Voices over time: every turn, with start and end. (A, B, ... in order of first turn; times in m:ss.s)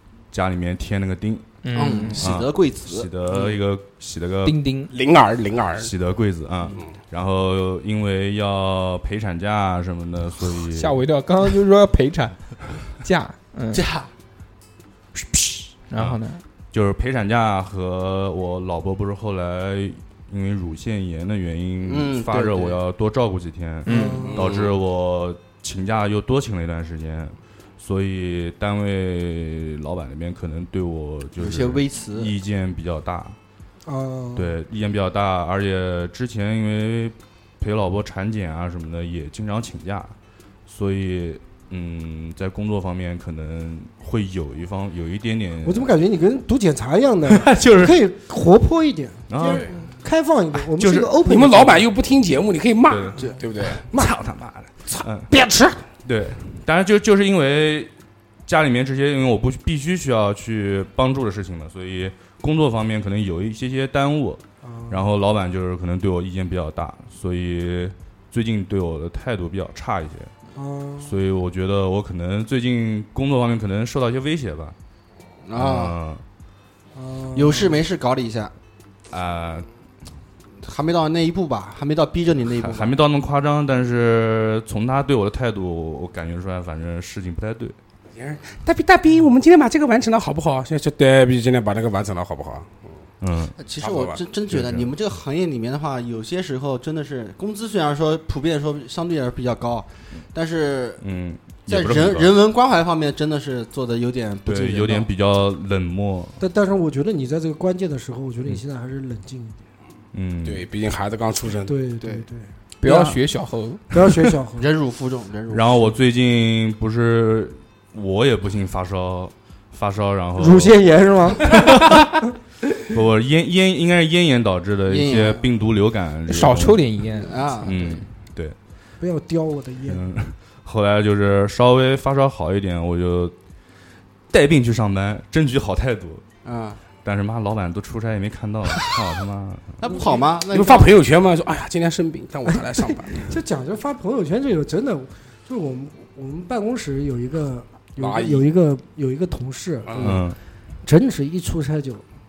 0:00.3-0:04.6 A
0:01.6-0:02.3 B
0:01.7-0:03.5 C
0:04.4-0:04.9 B
0:04.9-0:05.9 D
0:05.8-0:11.0 A
0:10.7-0:13.8 B
0:13.7-0:14.1 C
0:15.9-0:16.4 B
0:16.7-0:33.4 A
0:21.8-0:22.8 C
0:23.8-0:24.3 B
0:23.9-0:24.4 E
0:24.3-0:24.7 D
0:31.4-0:32.3 C
0:33.8-0:34.5 E
0:34.3-0:40.1 A
0:40.7-0:45.9 A
0:45.6-0:51.9 E
0:47.3-0:48.0 A
0:49.3-0:49.7 A
0:50.5-0:51.2 A
0:51.2-0:53.8 D
0:52.9-0:55.3 A
0:55.4-0:55.7 E
0:56.0-0:57.9 A
0:58.4-1:10.3 A
1:04.6-1:05.0 E
1:10.6-1:11.1 E
1:11.0-1:14.8 A
1:15.4-1:15.9 C
1:15.6-1:16.2 A
1:16.9-1:17.8 E
1:17.3-1:18.5 C
1:19.1-1:19.7 A
1:20.6-1:22.9 C
1:22.6-1:27.8 A
1:28.2-1:32.8 D
1:33.2-1:33.6 A
1:33.6-1:41.0 C
1:33.8-1:34.2 D
1:34.5-1:34.9 A
1:41.0-1:42.4 A
1:41.7-1:45.1 C
1:44.4-1:46.4 A
1:46.4-1:49.6 E
1:50.1-1:50.6 A
1:50.4-1:51.7 D
1:51.6-1:52.5 E
1:52.0-1:52.2 C
1:52.8-1:53.9 B
1:52.8-1:53.2 A
1:53.9-1:54.7 E
1:54.6-1:55.9 C
1:55.5-2:00.8 A
2:00.4-2:02.0 E
2:01.5-2:02.1 A
2:02.9-2:06.8 A
2:04.9-2:05.4 C
2:06.3-2:08.0 B
2:07.1-2:08.0 C
2:07.6-2:08.6 A
2:09.0-2:10.0 E
2:09.8-2:13.3 A
2:14.3-2:16.2 A
2:16.4-2:16.8 C
2:17.0-2:19.8 A
2:19.8-2:20.9 C
2:20.5-2:23.4 D
2:23.2-2:30.2 E
2:28.0-2:28.5 D
2:29.8-2:30.2 D
2:30.0-2:30.4 A
2:30.8-2:32.0 E